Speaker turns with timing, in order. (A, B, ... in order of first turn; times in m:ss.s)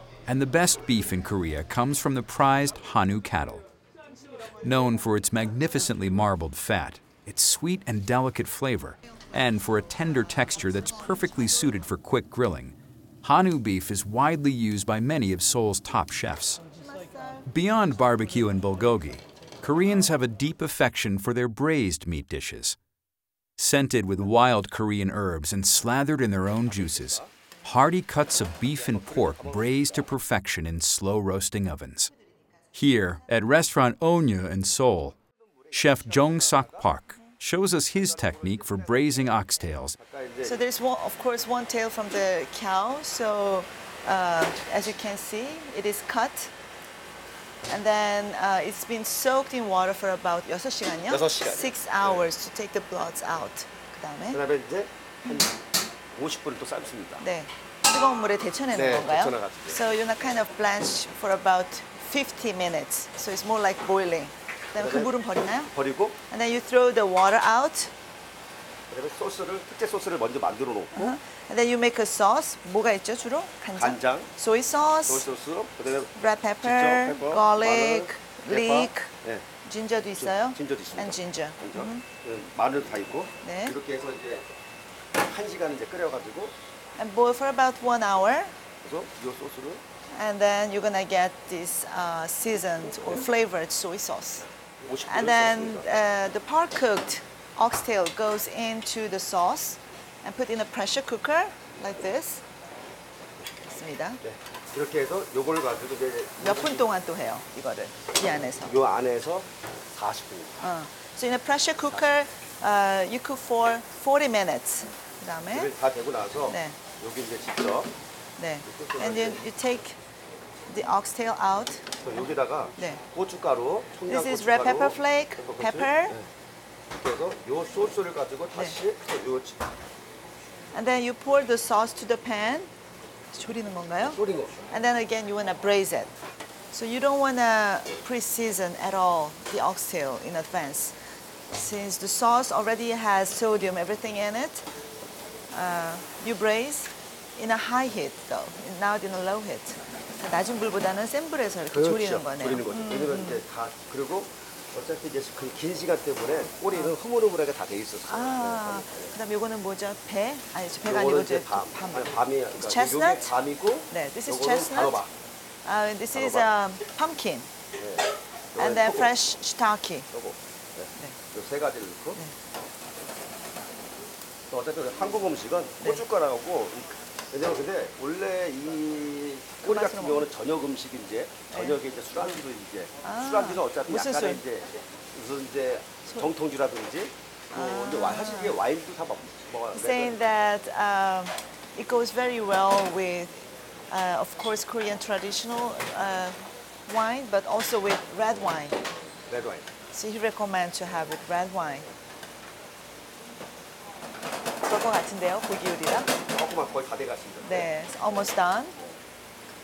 0:00.2-0:03.6 A
0:04.6-0:16.6 A
0:16.8-0:17.4 B
0:17.4-0:22.8 A
0:23.6-0:32.1 A
0:26.7-0:27.3 C
0:28.8-0:30.0 C
0:32.7-0:35.1 A
0:35.6-0:36.9 C
0:35.7-0:40.0 A
0:38.0-0:39.2 C
0:39.9-0:40.6 C
0:40.4-0:46.5 B
0:47.7-0:54.4 B
0:51.1-0:52.3 C
0:54.3-0:55.5 C
0:56.2-0:57.2 C
0:57.2-1:05.7 B
0:58.7-0:59.8 C
1:04.7-1:05.1 C
1:05.7-1:06.2 C
1:06.3-1:07.9 B
1:08.9-1:11.1 C
1:10.9-1:15.2 B
1:13.8-1:14.3 C
1:15.1-1:19.4 C
1:16.1-1:19.1 B
1:19.6-1:22.0 B
1:20.2-1:24.5 C
1:23.4-1:23.8 B
1:25.2-1:26.5 C
1:27.0-1:28.5 B
1:28.8-1:29.8 C
1:30.1-1:34.5 B
1:34.8-1:35.9 C
1:35.1-1:42.4 B
1:43.6-1:44.2 B
1:44.2-1:46.9 C
1:46.4-1:48.8 B
1:48.6-1:50.6 C
1:50.6-1:55.7 B
1:55.5-1:57.9 C
1:56.5-1:56.8 B
1:58.4-2:00.0 B
1:58.6-1:59.4 C
2:00.7-2:02.0 B
2:02.0-2:06.2 C
2:02.8-2:03.0 B
2:04.1-2:06.2 B
2:07.0-2:09.6 C
2:10.7-2:12.7 B
2:13.3-2:16.1 B
2:14.0-2:14.7 C
2:16.7-2:21.0 B
2:21.5-2:24.7 B
2:25.5-2:33.4 B
2:31.7-2:39.1 C
2:38.1-2:43.4 B
2:40.8-2:45.1 C
2:43.9-2:45.0 B
2:45.6-2:47.5 B
2:46.1-2:46.5 C
2:47.8-2:49.1 C
2:48.6-2:50.1 B
2:50.1-2:52.2 C
2:54.5-3:10.2 C
2:59.6-3:00.3 B
3:01.5-3:01.8 B
3:03.0-3:04.4 B
3:07.5-3:08.6 B
3:09.7-3:18.8 B
3:19.3-3:19.7 C
3:19.9-3:21.9 B
3:24.6-3:26.2 B
3:26.2-3:27.7 C
3:27.4-3:28.8 B